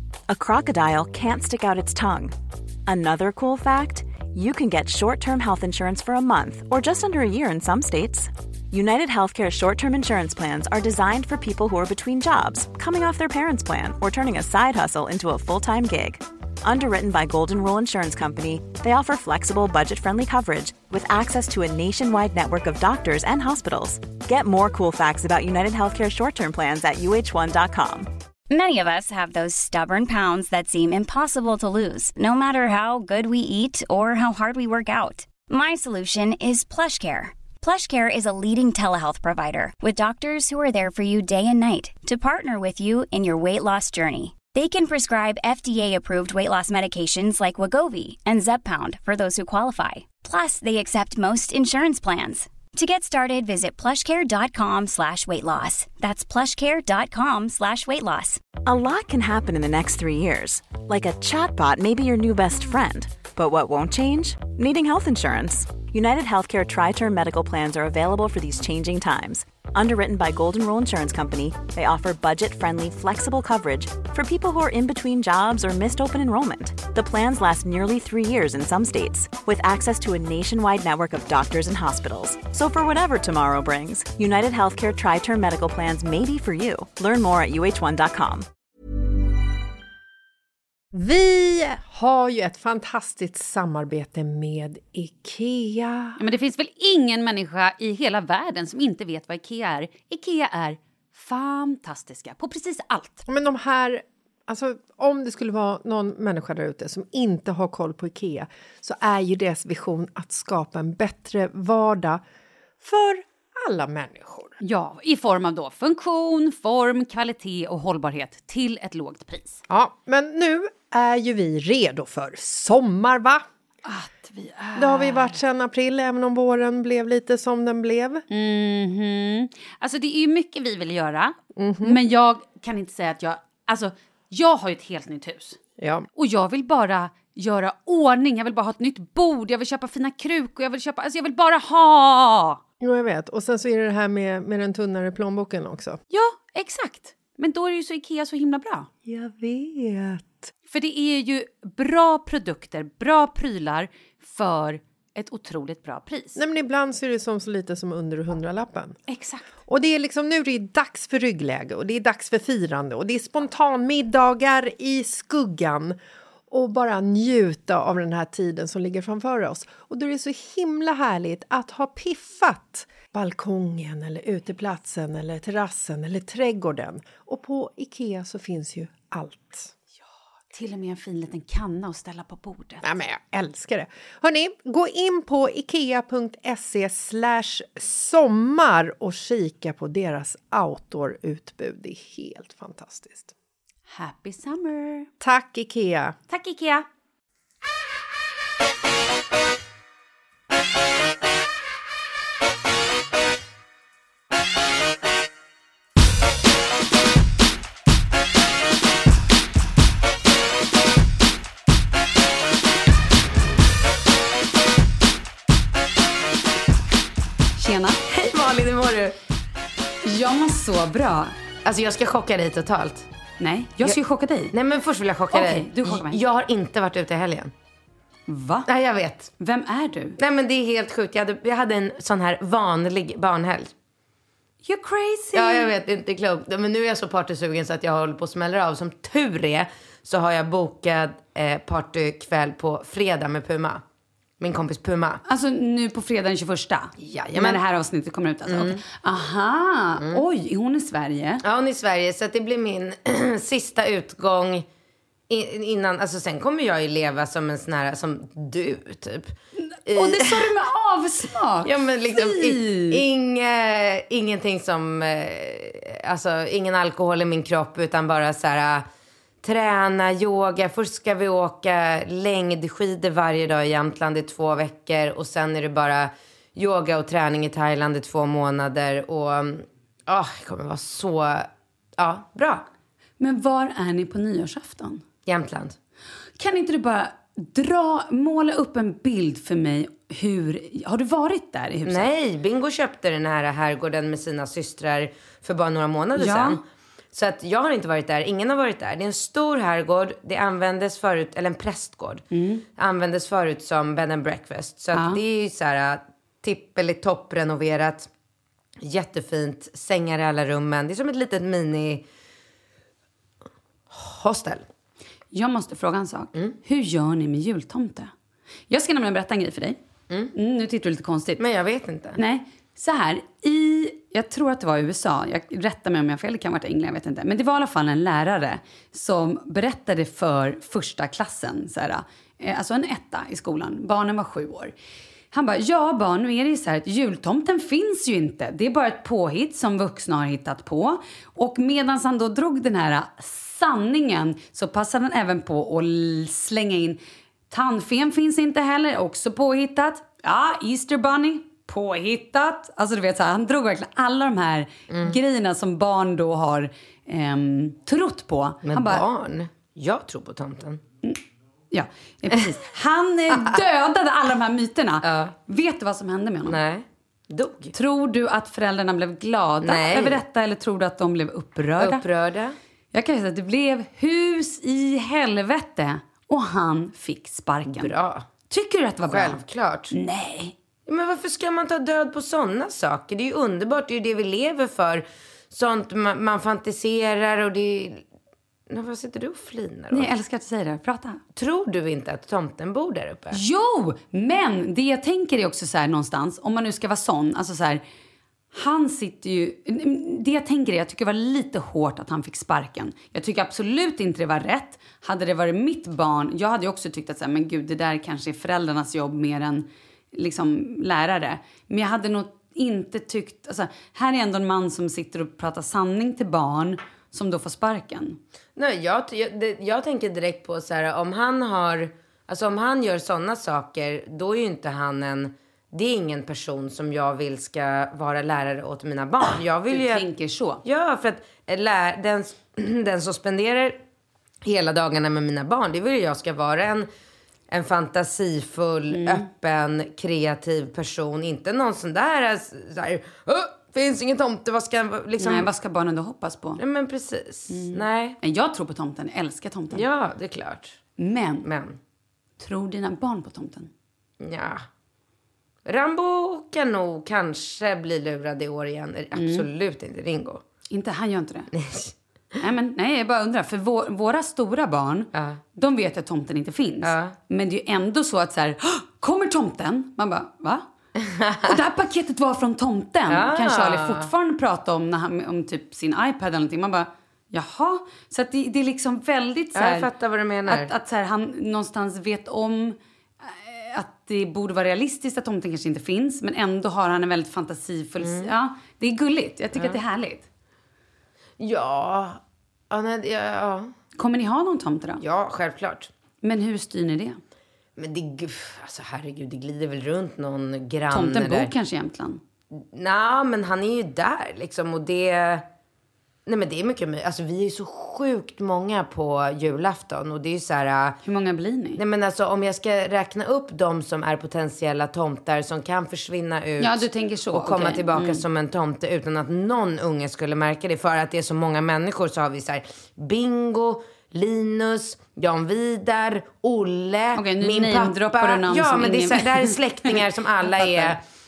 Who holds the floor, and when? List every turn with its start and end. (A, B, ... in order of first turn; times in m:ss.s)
0:00.3-0:02.3 A
0:02.8-0:28.1 A
0:28.5-0:58.4 B
0:58.6-1:28.5 A
1:30.9-1:36.2 C
1:36.2-1:43.2 D
1:43.3-1:52.2 C
1:52.8-1:54.5 C
1:54.6-1:59.6 D
1:59.7-2:03.4 C
2:03.8-2:05.4 D
2:04.8-2:08.2 C
2:08.3-2:15.6 D
2:11.6-2:12.0 C
2:15.8-2:16.1 C
2:16.1-2:22.6 D
2:22.8-2:26.0 C
2:26.1-2:28.9 D
2:29.0-2:30.5 C
2:30.7-2:36.4 D
2:36.4-2:39.0 C
2:39.1-2:39.4 D
2:39.6-2:46.0 C
2:46.5-2:59.7 C
3:00.5-3:02.8 D
3:02.8-3:13.3 C
3:13.9-3:15.1 D
3:15.2-3:16.2 C
3:16.3-3:16.8 D
3:37.6-3:38.0 D
3:38.1-3:39.2 E
3:40.0-3:41.3 D
3:41.6-3:43.1 E
3:43.4-3:44.5 D
3:44.5-3:47.5 E
3:45.3-3:46.2 D
3:48.3-3:48.7 D
3:48.7-3:49.3 E
3:49.4-3:50.2 D
3:50.2-3:53.7 E
3:54.6-3:55.7 D
3:55.3-4:03.8 E
4:04.4-4:05.2 E
4:05.2-4:11.4 D
4:07.0-4:07.6 E
4:08.5-4:08.8 E
4:11.4-4:14.6 E
4:15.3-4:19.3 E
4:19.7-4:23.0 D
4:19.9-4:20.5 E
4:21.6-4:28.8 E
4:29.4-4:42.6 E
4:43.2-4:45.0 D
4:45.2-4:45.8 E
4:46.4-4:52.1 D
4:51.8-4:56.6 E
4:56.2-4:56.6 D
4:57.1-5:02.2 E
5:02.3-5:02.6 D
5:02.8-5:08.1 E
5:04.9-5:05.2 D
5:08.8-5:12.0 E
5:13.9-5:14.6 E
5:15.3-5:18.1 D
5:18.7-5:19.8 D
5:20.3-5:21.4 D
5:21.4-5:22.2 E
5:22.2-5:34.7 D
5:35.3-5:47.0 D
5:47.5-5:59.0 D
5:54.9-5:55.2 E
5:58.6-6:00.8 E
6:01.7-6:06.6 D
6:05.0-6:05.3 E
6:06.4-6:07.7 E
6:07.7-6:12.0 D
6:09.6-6:10.2 E
6:11.8-6:12.6 E
6:12.9-6:17.9 D
6:17.6-6:18.2 E
6:18.5-6:19.4 D
6:19.1-6:19.9 E
6:19.9-6:20.5 D
6:20.9-6:28.0 E
6:28.7-6:30.1 E
6:29.9-6:31.2 D
6:31.3-6:33.4 E
6:33.3-6:37.8 D
6:38.5-6:58.2 D
6:58.6-7:10.0 E
7:09.7-7:10.6 D
7:10.6-7:13.8 E
7:14.4-7:16.9 E
7:17.5-7:25.5 E
7:18.9-7:19.3 D
7:25.2-7:26.6 D
7:26.6-7:28.2 E
7:27.5-7:29.8 D
7:29.7-7:30.8 E
7:31.0-7:31.5 D
7:31.4-7:31.8 E
7:32.4-7:33.7 D
7:34.2-7:34.6 E
7:35.6-7:40.4 E
7:39.1-7:39.4 D
7:40.7-7:41.5 D
7:41.5-7:41.9 E
7:42.4-7:50.6 D
7:45.1-7:45.4 E
7:46.8-7:47.1 E
7:51.0-7:51.6 E
7:51.4-7:59.9 D
7:53.1-7:54.1 E
7:59.5-8:00.7 E
8:00.5-8:10.3 D
8:08.0-8:08.3 E
8:09.5-8:09.8 E
8:11.4-8:12.2 E
8:12.7-8:13.7 E
8:14.0-8:15.0 D
8:15.0-8:15.9 E
8:16.2-8:17.2 D
8:17.8-8:21.5 E
8:20.9-8:22.2 D
8:22.5-8:25.4 E
8:26.2-8:31.0 E
8:31.0-8:31.8 D
8:31.8-8:51.0 E
8:36.6-8:38.2 D
8:47.1-8:50.0 D
8:50.6-8:50.9 D